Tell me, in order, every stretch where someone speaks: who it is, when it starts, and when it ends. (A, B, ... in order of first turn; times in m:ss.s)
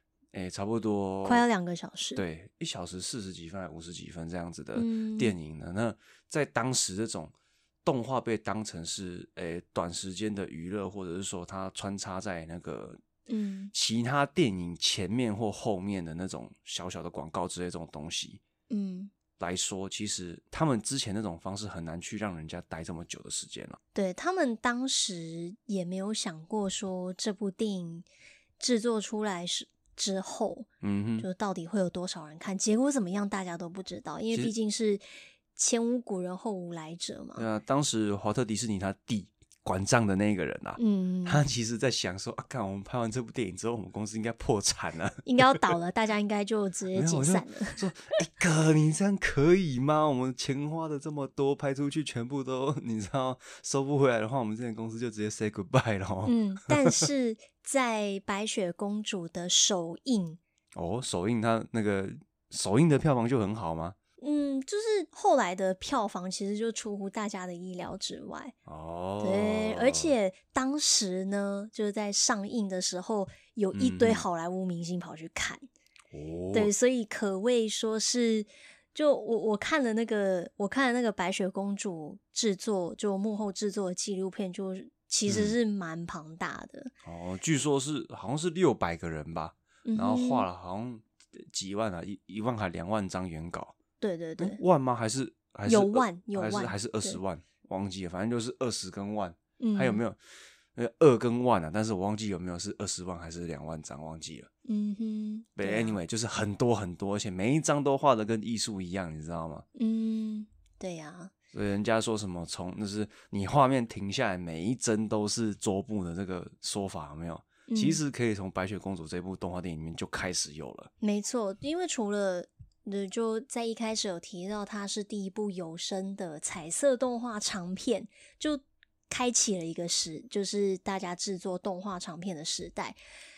0:00.3-0:01.4 A
0:01.2-0:02.2 B
0:02.2-0:13.0 A
0:04.8-0:05.4 B
0:13.3-0:13.7 B
0:13.7-0:18.4 A
0:18.7-0:19.1 B
0:19.4-0:23.8 A
0:24.0-0:28.1 B
0:28.6-0:30.7 B
0:30.8-0:31.3 A
0:31.2-0:35.0 B
0:35.6-0:37.5 B
0:37.4-0:45.6 A
0:40.8-0:41.4 B
0:45.2-0:47.8 B
0:46.9-0:57.0 A
0:56.2-1:00.4 B
1:00.8-1:04.0 A
1:04.2-1:08.6 B
1:08.7-1:10.1 A
1:09.2-1:15.6 B
1:13.7-1:14.3 A
1:16.1-1:16.7 A
1:16.5-1:26.9 B
1:25.3-1:25.6 A
1:27.0-1:33.7 A
1:29.9-1:30.5 B
1:34.0-1:34.6 B
1:34.4-1:40.2 A
1:35.7-1:37.2 B
1:39.6-1:40.0 B
1:40.8-1:44.5 A
1:44.6-1:46.0 B
1:45.6-1:49.7 A
1:49.8-1:51.3 B
1:51.5-2:00.9 A
1:57.7-1:58.0 B
2:01.0-2:13.0 B